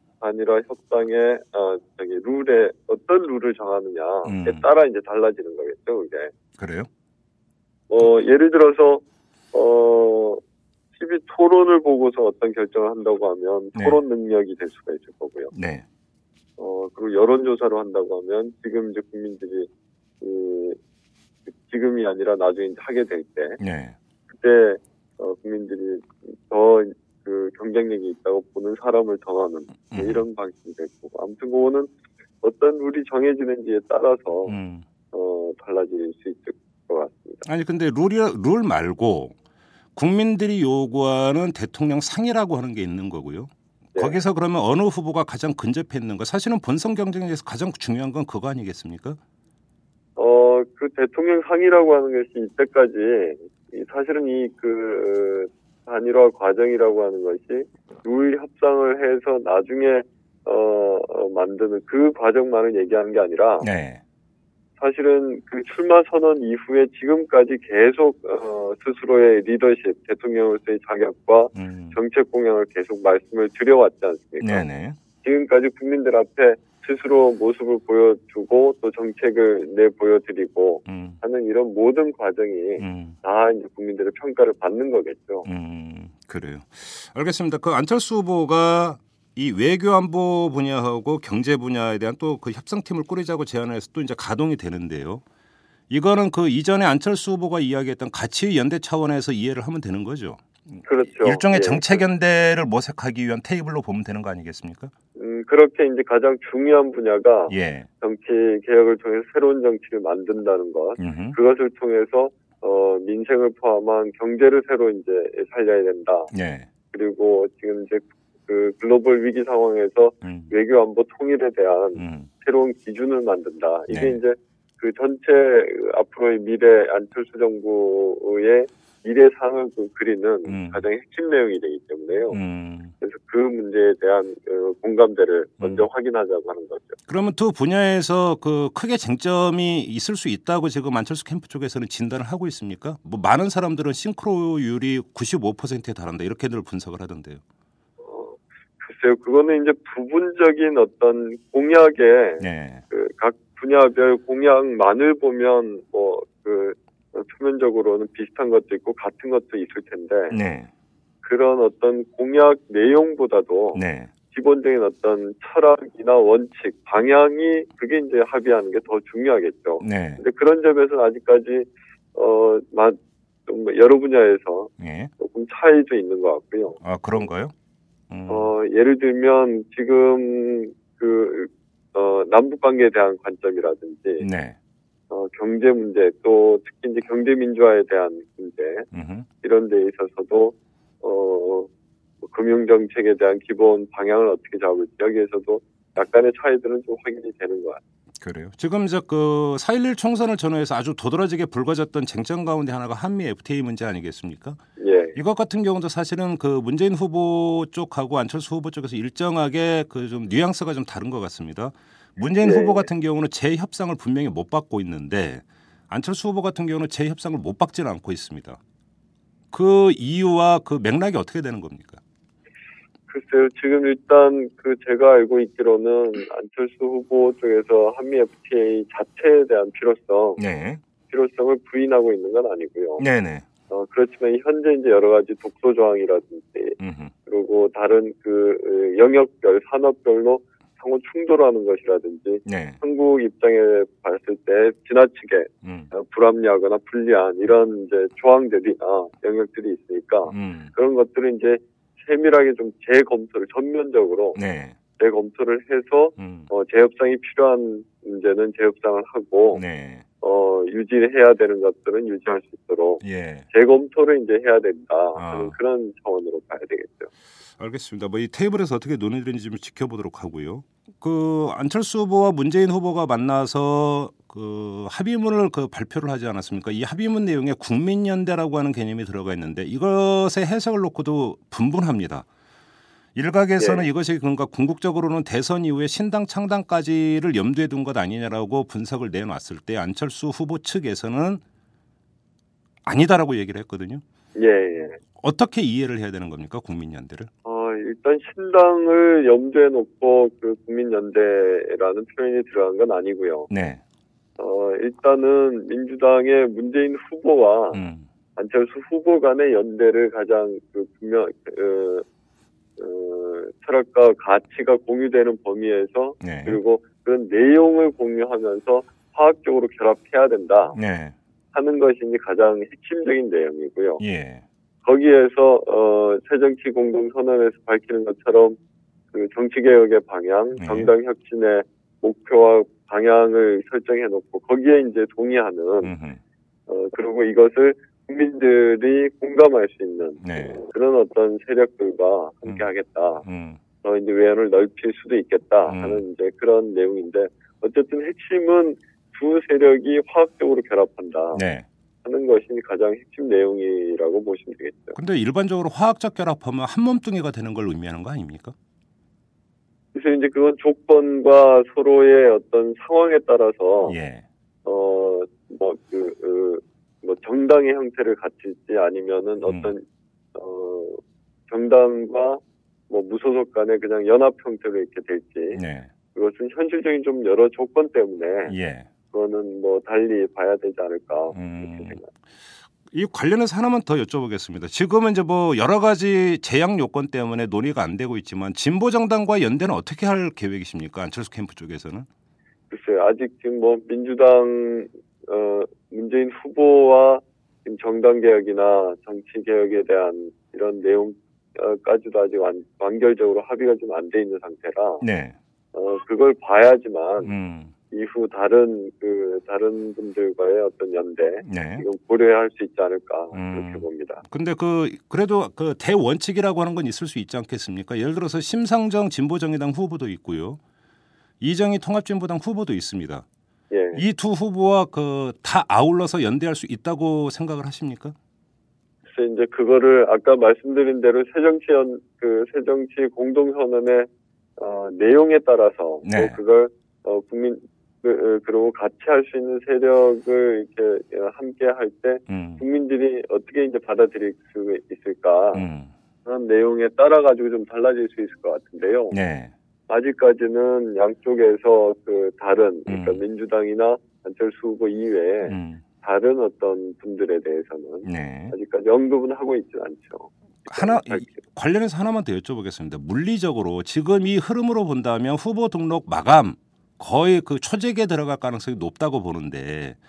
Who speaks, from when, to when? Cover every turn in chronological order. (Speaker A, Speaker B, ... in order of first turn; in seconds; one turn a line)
Speaker A: 0.2-6.3
Speaker B: 4.2-4.7
Speaker B: 6.6-6.9
Speaker A: 7.9-9.0
Speaker A: 9.5-10.4
Speaker A: 10.9-15.5
Speaker B: 13.7-14.0
Speaker B: 15.5-15.8
Speaker A: 16.6-19.7
Speaker A: 20.2-20.8
Speaker A: 21.5-23.6
Speaker B: 23.6-23.9
Speaker A: 24.3-31.9
Speaker B: 29.9-30.2
Speaker A: 32.4-34.5
Speaker B: 34.5-34.8
Speaker A: 35.1-37.4
Speaker B: 37.4-39.4
Speaker B: 40.0-49.2
Speaker A: 50.2-63.7
Speaker B: 63.6-64.0
Speaker A: 64.8-74.6
Speaker B: 71.5-72.0
Speaker B: 74.4-75.0
Speaker A: 75.2-85.5
Speaker B: 80.8-81.2
Speaker B: 82.8-83.2
Speaker B: 85.4-95.2
Speaker B: 95.9-104.9
Speaker A: 100.8-102.0
Speaker A: 105.2-116.3
Speaker B: 107.5-107.9
Speaker B: 111.0-111.4
Speaker B: 116.3-116.7
Speaker A: 116.9-132.4
Speaker B: 120.2-120.5
Speaker B: 122.0-122.3
Speaker B: 123.9-124.2
Speaker B: 130.4-130.8
Speaker B: 132.3-132.9
Speaker A: 133.0-137.0
Speaker B: 135.6-135.9
Speaker B: 137.1-147.4
Speaker A: 148.0-160.3
Speaker B: 152.4-152.8
Speaker B: 160.3-160.7
Speaker A: 161.2-177.2
Speaker B: 163.7-164.1
Speaker B: 169.8-170.2
Speaker B: 174.8-175.1
Speaker B: 176.8-177.5
Speaker B: 178.1-178.5
Speaker A: 178.3-184.3
Speaker B: 184.2-184.6
Speaker A: 185.1-188.9
Speaker B: 188.9-189.3
Speaker A: 189.4-191.7
Speaker A: 192.2-197.8
Speaker B: 198.2-204.6
Speaker A: 204.8-205.2
Speaker B: 205.1-218.6
Speaker A: 212.4-212.9
Speaker B: 219.5-222.0
Speaker A: 223.1-230.4
Speaker B: 230.4-230.8
Speaker A: 231.1-233.0
Speaker B: 233.0-233.4
Speaker A: 233.7-254.4
Speaker B: 236.8-237.1
Speaker B: 242.4-242.8
Speaker B: 245.6-245.9
Speaker B: 250.3-250.7
Speaker B: 254.3-254.8
Speaker A: 255.0-259.6
Speaker B: 256.2-256.5
Speaker B: 259.5-260.0
Speaker A: 260.2-267.1
Speaker B: 263.0-263.5
Speaker B: 265.1-265.6
Speaker B: 267.6-282.2
Speaker B: 283.1-291.4
Speaker A: 283.6-283.9
Speaker B: 292.8-294.0
Speaker A: 294.4-295.0
Speaker B: 295.2-297.3
Speaker A: 297.4-303.5
Speaker B: 303.5-303.8
Speaker A: 304.4-307.8
Speaker B: 307.7-308.1
Speaker A: 308.4-312.0
Speaker A: 312.8-320.8
Speaker B: 316.2-316.6
Speaker B: 320.7-321.1
Speaker A: 321.5-324.0
Speaker B: 324.0-324.4
Speaker A: 324.8-328.6
Speaker A: 329.1-335.9
Speaker B: 330.6-330.9
Speaker B: 335.8-336.2
Speaker A: 336.7-343.2
Speaker B: 340.2-340.6
Speaker B: 343.2-343.6
Speaker A: 343.8-351.4
Speaker B: 345.6-346.0
Speaker B: 351.3-351.6
Speaker A: 352.0-354.9
Speaker B: 354.9-358.5
Speaker A: 359.9-363.9
Speaker B: 363.8-364.2
Speaker A: 364.6-369.8
Speaker B: 369.4-369.7
Speaker A: 370.3-375.6
Speaker B: 375.5-375.9
Speaker A: 376.1-378.5
Speaker B: 378.4-378.9
Speaker A: 379.1-382.1
Speaker B: 381.3-382.0
Speaker B: 382.9-392.1
Speaker A: 392.7-405.0
Speaker B: 405.0-405.4
Speaker A: 405.7-407.3
Speaker B: 407.2-407.7
Speaker A: 407.9-414.2
Speaker B: 411.4-411.8
Speaker B: 413.3-420.6
Speaker B: 421.4-423.2
Speaker A: 423.7-424.0
Speaker B: 423.9-428.1
Speaker A: 429.1-445.6
Speaker B: 436.0-436.4
Speaker B: 442.3-442.6
Speaker B: 445.5-445.9
Speaker A: 446.2-449.2
Speaker B: 449.1-449.5
Speaker A: 449.9-461.3
Speaker B: 452.9-453.2
Speaker B: 455.4-455.8
Speaker B: 458.0-458.5
Speaker B: 460.7-470.0